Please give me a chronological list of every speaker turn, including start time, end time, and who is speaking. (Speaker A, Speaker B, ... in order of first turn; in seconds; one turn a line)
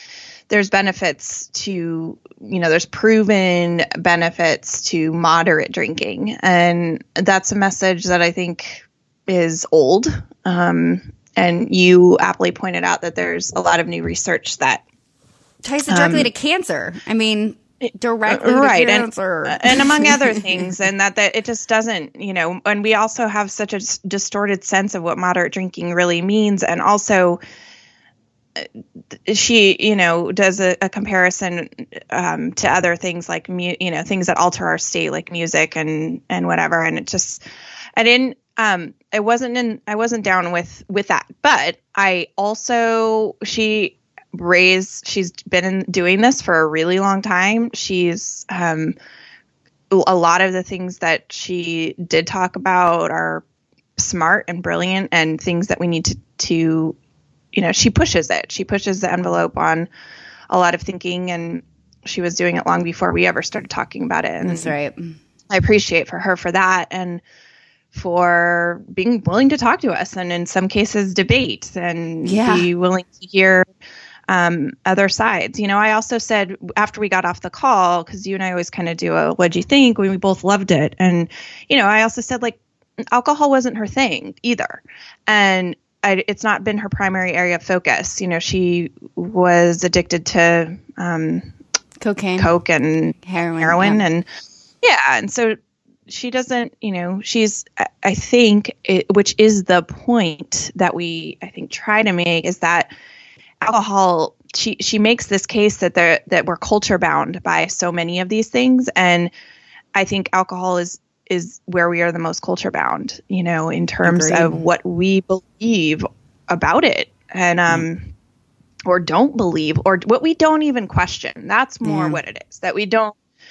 Speaker A: 0.5-14.8
Speaker B: 15.6-20.3
Speaker A: 15.9-16.3
Speaker A: 17.8-27.4
Speaker A: 29.2-37.4
Speaker A: 38.0-49.0
Speaker A: 49.9-53.4
Speaker A: 54.0-57.0
Speaker A: 57.5-59.9
Speaker A: 60.5-64.7
Speaker B: 64.4-65.2
Speaker A: 65.5-67.2
Speaker A: 67.9-73.7
Speaker B: 72.2-72.7
Speaker A: 74.3-82.6
Speaker A: 83.1-91.5
Speaker B: 92.0-92.5
Speaker A: 92.4-94.3
Speaker B: 93.2-94.0
Speaker A: 94.8-95.6
Speaker A: 96.1-102.9
Speaker A: 103.6-109.3
Speaker A: 109.9-118.1
Speaker B: 114.0-114.6
Speaker A: 118.8-123.2
Speaker B: 121.8-122.2